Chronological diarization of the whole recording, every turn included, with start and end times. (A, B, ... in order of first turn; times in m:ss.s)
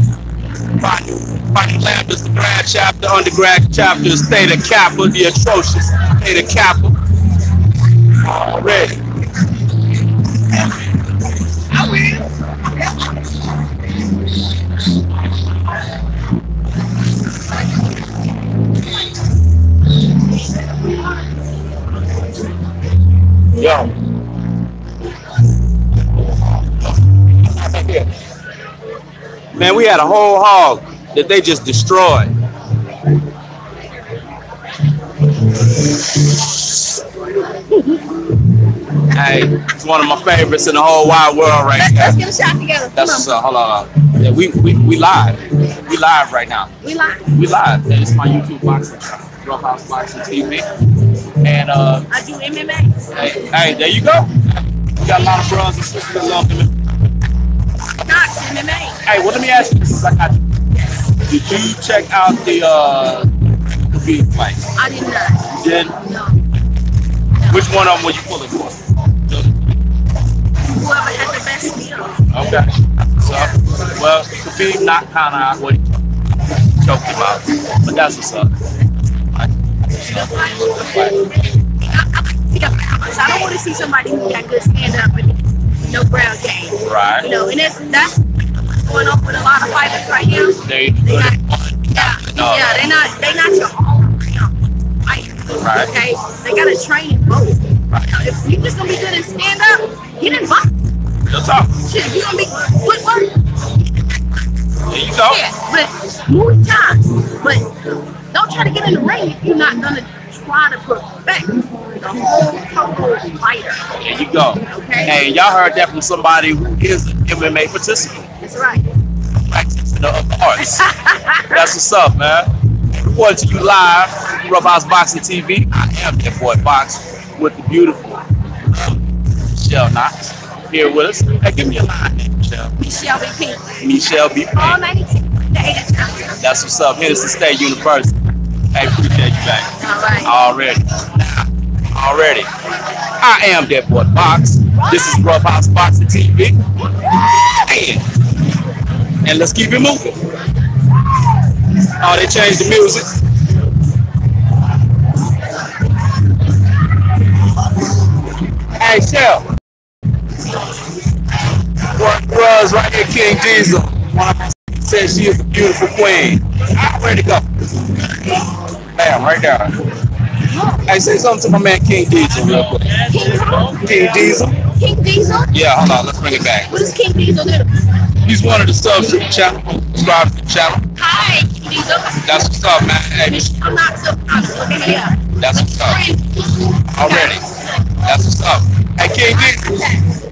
0:00.8-0:07.0 A
0:08.2-0:09.0 A
0:23.6-0:23.9 A
0:27.6-0:28.1 A
0:29.6-0:32.3 A
0:39.1-0:42.2 A
0:41.8-0:43.3 B
0:43.0-0:46.7 A
0:46.8-0:47.3 B
0:47.3-0:50.7 A
0:51.4-0:52.1 A
0:52.1-0:53.1 B
0:53.1-0:56.7 A
0:58.0-0:59.0 B
0:59.0-1:00.5 A
1:01.2-1:04.6 A
1:04.8-1:06.4 B
1:05.5-1:06.0 A
1:07.5-1:09.6 A
1:10.6-1:12.3 B
1:12.3-1:16.0 A
1:16.6-1:18.6 A
1:19.4-1:21.3 A
1:20.1-1:21.1 B
1:21.8-1:31.4 B
1:26.8-1:27.3 A
1:30.6-1:32.8 A
1:32.0-1:34.5 B
1:35.1-1:40.7 B
1:35.5-1:35.9 A
1:41.3-1:41.8 A
1:41.8-1:43.4 B
1:44.9-1:45.4 A
1:45.2-1:47.7 B
1:48.3-1:53.8 B
1:54.0-1:58.2 A
1:54.7-1:55.1 B
1:58.4-1:58.9 B
1:59.4-2:00.9 A
2:00.6-2:01.5 B
2:01.5-2:12.7 A
2:12.8-2:13.8 B
2:13.8-2:14.8 A
2:14.6-2:16.4 B
2:16.4-2:18.2 A
2:18.7-2:19.7 A
2:19.8-2:20.3 B
2:20.2-2:22.5 A
2:23.2-2:26.6 A
2:27.5-2:28.0 A
2:29.2-2:30.2 A
2:32.0-2:33.1 A
2:38.8-2:39.5 A
2:41.9-2:47.4 A
2:49.0-2:49.8 A
2:50.5-2:50.8 B
2:50.8-2:53.1 A
2:53.1-2:54.0 B
2:53.7-2:54.6 A
2:54.7-2:55.5 B
2:55.5-2:56.7 A
2:56.7-2:57.7 B
2:58.2-3:00.9 A
3:01.0-3:06.4 B
3:02.2-3:03.5 A
3:05.4-3:06.0 A
3:06.9-3:07.4 A
3:07.0-3:07.4 B
3:08.0-3:09.8 A
3:09.3-3:10.0 B